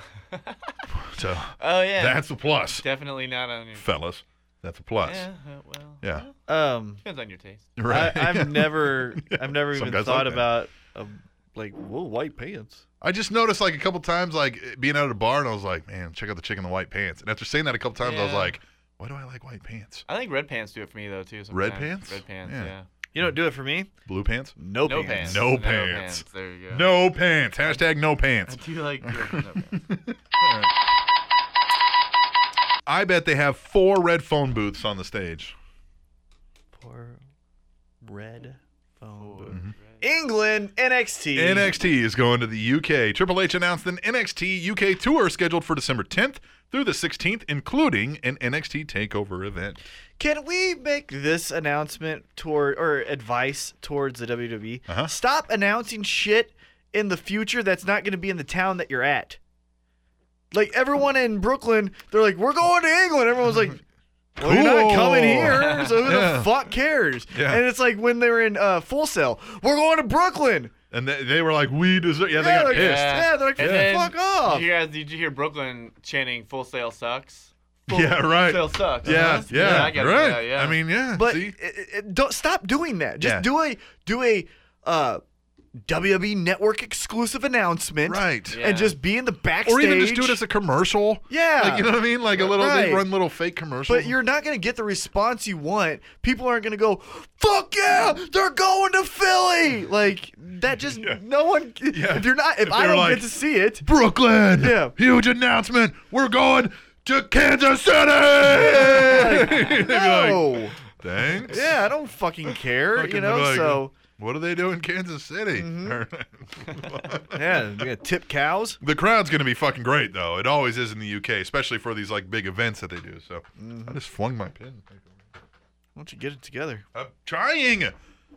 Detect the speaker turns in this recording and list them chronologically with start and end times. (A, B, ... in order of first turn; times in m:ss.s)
0:00.3-0:00.8 A
0:00.9-0:02.8 B
0:01.6-0:03.9 A
0:03.8-0:05.3 B
0:05.0-0:06.4 A
0:06.5-0:07.0 C
0:07.0-0:07.7 A
0:07.8-0:10.5 B
0:07.9-0:12.8 C
0:13.0-0:20.1 B
0:18.0-0:18.6 A
0:20.1-0:22.9 A
0:21.5-0:22.7 B
0:23.1-0:23.9 C
0:24.1-0:30.7 B
0:24.6-0:25.5 C
0:24.8-0:26.9 A
0:28.5-0:29.8 A
0:32.9-0:35.6 B
0:36.8-0:37.2 C
0:38.0-0:41.8 C
0:39.2-0:40.0 A
0:41.3-0:49.8 B
0:50.2-0:59.4 C
1:00.5-1:03.8 C
1:04.4-1:10.7 C
1:04.4-1:06.5 B
1:07.3-1:07.6 B
1:10.9-1:14.0 B
1:12.3-1:14.7 C
1:12.7-1:20.8 A
1:17.9-1:21.6 B
1:19.0-1:20.0 C
1:21.1-1:25.2 C
1:23.2-1:23.5 B
1:25.8-1:30.4 C
1:28.0-1:28.6 B
1:28.5-1:28.9 A
1:29.6-1:34.2 B
1:31.3-1:33.1 C
1:33.9-1:43.9 C
1:41.9-1:43.3 B
1:43.8-1:51.8 B
1:44.5-1:45.0 C
1:48.4-1:50.8 C
1:51.4-1:53.9 C
1:52.9-1:57.9 B
1:55.5-1:56.0 C
1:57.3-1:58.8 C
1:58.8-2:05.2 B
2:03.6-2:04.0 C
2:06.0-2:06.8 C
2:06.9-2:08.0 B